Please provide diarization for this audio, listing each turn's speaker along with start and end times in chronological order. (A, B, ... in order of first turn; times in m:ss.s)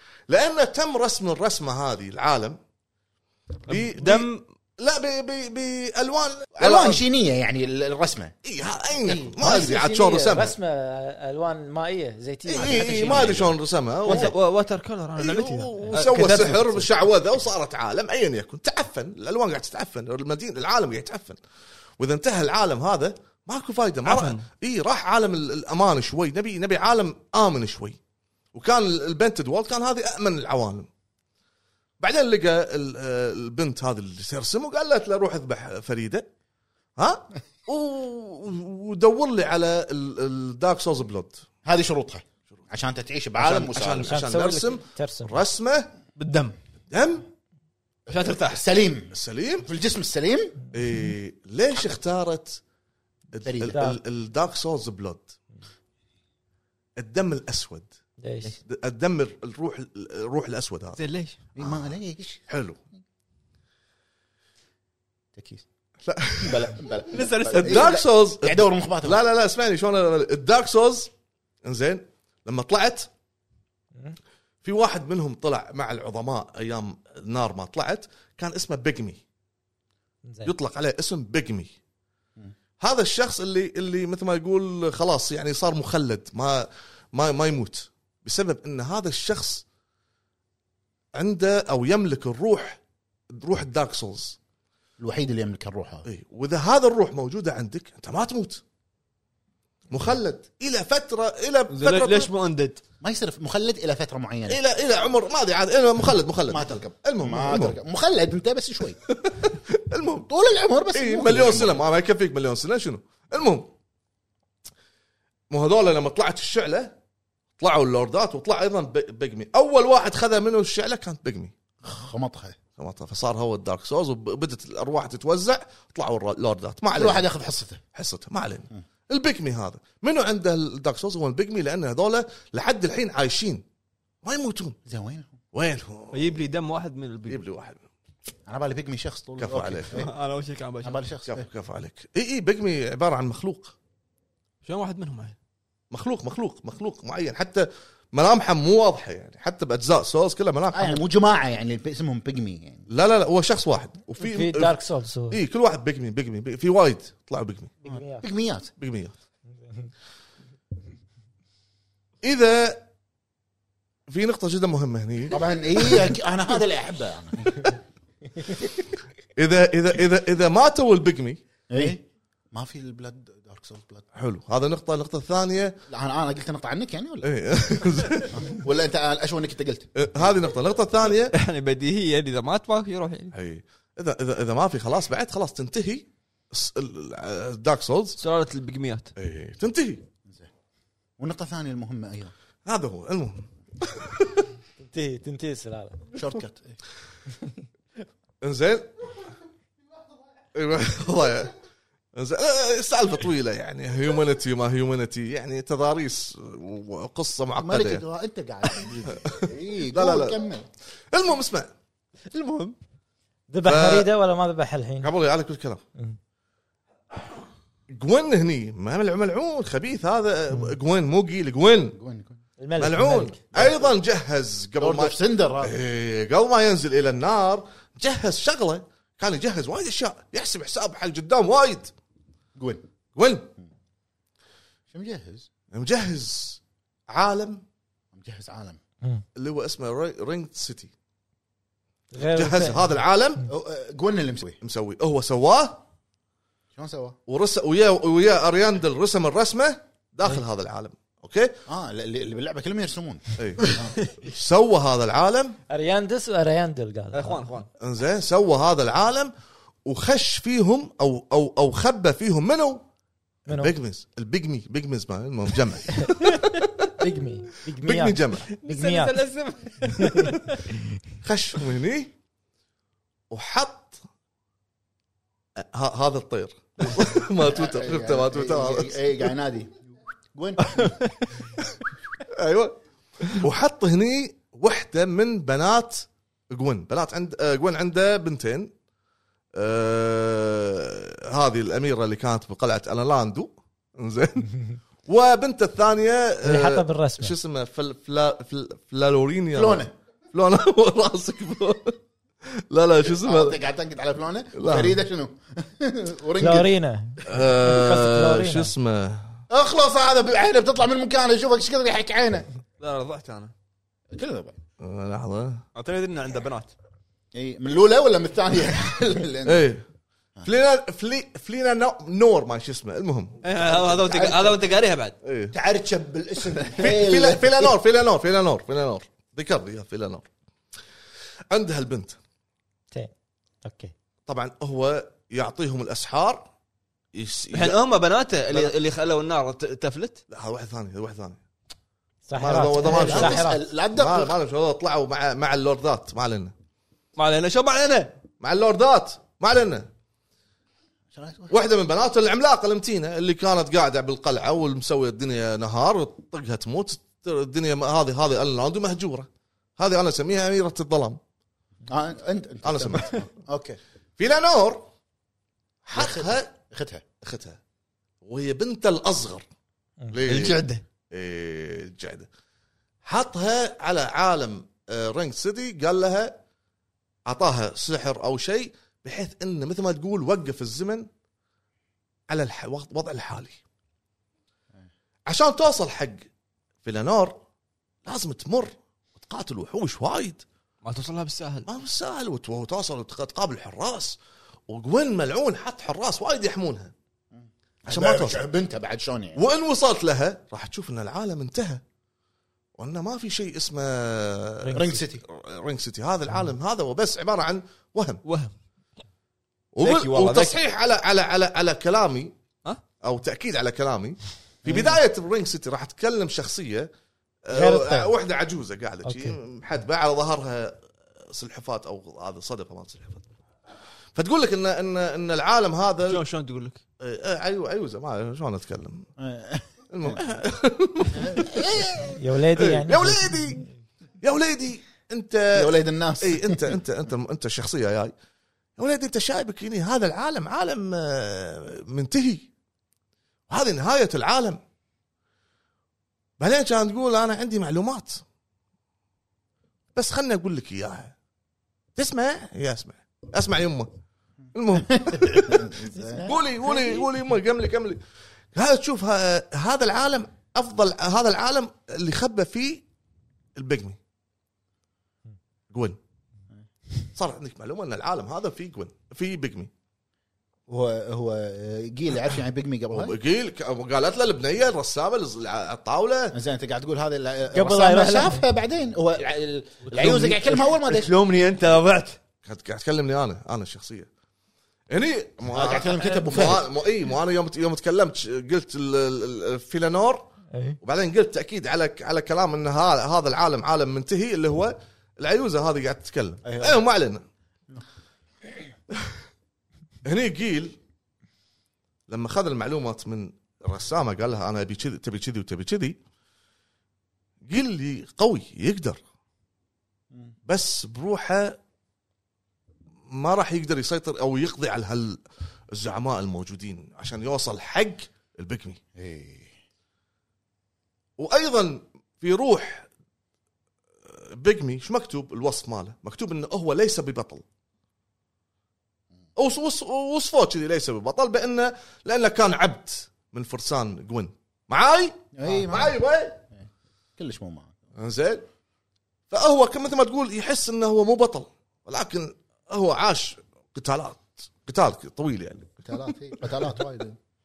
0:00.3-0:02.6 A
0:03.7-0:04.4 B
0:03.7-0:07.0 A
0:06.5-0:08.3 C
0:08.4-0:10.5 A
0:09.0-0:13.5 D
0:12.5-0:14.3 A
0:12.6-0:13.3 B
0:14.0-0:16.9 B
0:15.2-0:21.4 A
0:22.0-0:28.0 A
0:24.0-0:24.4 B
0:28.5-0:30.9 A
0:32.0-0:36.3 A
0:37.0-0:41.4 A
0:41.6-0:44.2 C
0:43.4-0:45.9 A
0:44.0-0:45.4 D
0:46.2-0:46.5 B
0:46.9-0:47.3 A
0:48.1-0:48.6 B
0:48.1-0:49.1 C
0:49.1-0:49.7 A
0:49.6-0:50.6 C
0:50.7-0:52.6 A
0:53.3-0:55.3 A
0:53.4-0:54.0 C
0:53.7-0:54.0 D
0:57.0-0:57.9 A
0:58.2-0:58.6 D
0:58.6-1:01.0 A
1:01.0-1:01.4 B
1:01.6-1:02.4 C
1:02.5-1:02.8 A
1:05.4-1:05.6 C
1:06.0-1:06.9 A
1:06.4-1:09.2 C
1:07.1-1:07.9 B
1:07.5-1:11.1 A
1:11.6-1:13.1 A
1:14.6-1:19.2 A
1:20.2-1:20.5 D
1:20.4-1:21.7 A
1:22.8-1:29.6 A
1:31.1-1:32.8 A
1:33.3-1:34.4 A
1:35.0-1:36.0 C
1:36.0-1:38.6 A
1:39.9-1:42.3 A
1:41.7-1:42.8 B
1:43.0-1:44.6 C
1:44.5-1:47.8 A
1:46.5-1:49.0 C
1:49.1-1:50.3 A
1:50.2-1:51.8 C
1:50.9-1:53.7 A
1:55.5-1:57.0 A
1:57.6-2:01.5 A
2:01.8-2:02.6 C
2:02.8-2:07.2 A
2:06.9-2:07.8 C
2:07.9-2:13.6 A
2:14.2-2:14.8 A
2:14.8-2:15.4 C
2:15.5-2:16.4 A
2:16.1-2:17.4 B
2:17.3-2:17.8 A
2:18.5-2:20.1 C
2:19.4-2:20.0 A
2:19.9-2:21.0 B
2:20.8-2:21.4 C
2:21.3-2:23.7 A
2:24.6-2:25.4 B
2:25.9-2:31.0 A
2:30.7-2:32.9 C
2:32.9-2:34.7 A
2:34.2-2:35.4 D
2:35.3-2:37.7 A
2:37.8-2:38.2 D
2:37.8-2:38.7 C
2:38.8-2:39.1 A
2:42.2-2:42.9 A
2:44.1-2:46.1 A
2:45.3-2:47.7 C
2:49.4-2:51.4 A
2:51.7-2:54.0 C
2:54.1-2:55.8 A
2:55.9-2:57.3 C
2:57.2-2:58.5 A
2:58.3-2:59.9 C
2:59.9-3:01.3 A
3:01.3-3:03.3 B
3:03.3-3:08.2 A
3:08.2-3:09.1 B
3:09.2-3:10.0 A
3:11.2-3:12.3 C
3:12.6-3:14.4 A
3:14.8-3:16.0 D
3:16.1-3:16.8 C
3:18.4-3:18.9 A
3:20.5-3:21.6 A
3:22.1-3:28.0 A
3:27.6-3:30.6 C
3:28.9-3:30.4 A
3:31.1-3:31.7 A
3:32.3-3:32.8 B
3:33.5-3:35.1 D
3:33.6-3:34.1 A
3:35.0-3:35.8 A
3:37.9-3:42.0 A
3:41.9-3:42.4 C
3:42.6-3:43.4 D
3:42.8-3:51.9 A
3:44.8-3:45.8 C
3:52.6-3:52.8 C
3:53.1-3:53.5 A
3:54.9-3:55.5 C
3:55.7-3:57.6 A
3:58.1-3:58.8 C
3:59.3-4:00.9 A
4:02.1-4:02.8 D
4:02.3-4:03.5 A
4:03.5-4:04.6 C
4:04.6-4:05.8 A
4:06.7-4:07.2 C
4:07.3-4:11.6 A
4:11.7-4:13.9 C
4:13.4-4:15.6 A
4:15.7-4:17.4 D
4:17.1-4:17.7 B
4:17.8-4:19.3 A
4:19.8-4:22.8 A
4:23.5-4:23.7 D
4:23.5-4:26.6 A
4:27.0-4:29.2 D
4:27.8-4:28.5 A
4:28.5-4:30.6 B
4:29.9-4:30.4 D
4:31.2-4:32.1 A
4:33.3-4:34.0 A
4:35.6-4:39.3 A
4:37.4-4:41.0 C
4:40.7-4:41.1 B
4:42.3-4:48.7 A
4:49.5-5:03.6 A
4:56.4-4:57.4 D
4:59.5-4:59.9 C
5:03.0-5:06.7 C
5:04.5-5:05.0 A
5:06.4-5:08.7 D
5:07.2-5:09.4 A
5:09.5-5:12.5 C
5:12.8-5:13.5 B
5:14.1-5:14.6 C
5:14.8-5:15.6 A
5:15.7-5:16.7 B
5:17.3-5:19.7 C
5:19.4-5:19.8 A
5:20.4-5:23.4 A
5:23.4-5:25.1 B
5:23.7-5:24.6 C
5:25.2-5:25.5 A
5:25.5-5:27.8 C
5:26.7-5:30.3 A
5:31.5-5:32.2 A
5:33.6-5:33.9 D
5:34.2-5:36.4 A
5:37.1-5:37.8 A
5:37.5-5:40.2 B
5:40.3-5:41.4 A
5:42.3-5:43.6 D
5:42.4-5:46.5 A
5:42.8-5:44.4 C
5:47.2-5:48.1 B
5:48.4-5:49.9 A
5:51.1-5:51.5 C
5:51.5-6:01.2 A
6:01.9-6:03.8 C
6:02.6-6:03.2 A
6:04.2-6:04.9 A
6:05.8-6:06.5 A
6:05.9-6:07.0 C
6:07.2-6:07.6 A
6:08.2-6:09.4 A
6:10.1-6:10.6 A
6:10.2-6:10.8 B
6:11.1-6:12.3 A
6:13.0-6:16.4 A
6:17.2-6:21.1 A
6:22.3-6:23.6 A
6:25.3-6:26.3 A
6:26.8-6:27.4 A
6:28.0-6:30.4 A
6:30.8-6:31.7 B
6:31.6-6:34.2 A
6:34.7-6:36.9 A
6:37.3-6:39.4 C
6:37.9-6:38.4 A
6:39.4-6:41.8 A
6:42.8-6:48.2 A
6:44.7-6:45.2 C
6:48.2-6:48.5 B
6:49.7-6:52.3 A
6:49.8-6:50.6 B
6:53.0-6:56.9 A
6:54.7-6:54.9 C
6:57.4-7:03.2 A
6:57.5-6:58.1 D
6:59.0-6:59.4 D
7:04.1-7:06.2 A
7:06.0-7:06.8 B
7:07.0-7:09.1 A
7:09.2-7:10.2 C
7:09.9-7:13.6 A
7:11.1-7:12.0 C
7:12.1-7:13.6 D
7:14.2-7:18.1 A
7:15.5-7:16.8 C
7:18.8-7:22.5 A
7:23.5-7:24.6 A
7:26.4-7:28.2 A
7:29.9-7:31.1 A
7:32.0-7:33.9 A
7:34.5-7:38.0 A
7:34.7-7:36.3 C
7:35.9-7:37.0 D
7:38.5-7:42.8 A
7:43.6-7:44.0 A
7:45.7-7:46.0 A
7:47.1-7:49.7 A
7:50.7-7:53.1 C
7:52.9-7:56.4 A
7:56.3-8:01.1 C
7:57.5-7:58.4 D
7:59.9-8:02.2 B
8:02.4-8:04.1 A
8:04.9-8:10.2 A
8:05.5-8:06.7 C
8:06.2-8:06.6 B
8:10.5-8:10.8 D
8:10.8-8:17.2 A
8:16.4-8:16.8 C
8:20.0-8:20.8 A
8:22.1-8:26.0 A
8:27.5-8:29.0 A
8:30.5-8:31.6 A
8:33.1-8:38.8 A
8:38.9-8:39.6 C
8:41.2-8:42.9 A
8:44.0-8:47.4 A
8:49.4-8:56.4 A
8:55.3-8:56.0 C
8:57.2-8:57.8 C
8:58.0-8:58.4 A
8:59.3-9:06.8 A
9:05.8-9:07.2 C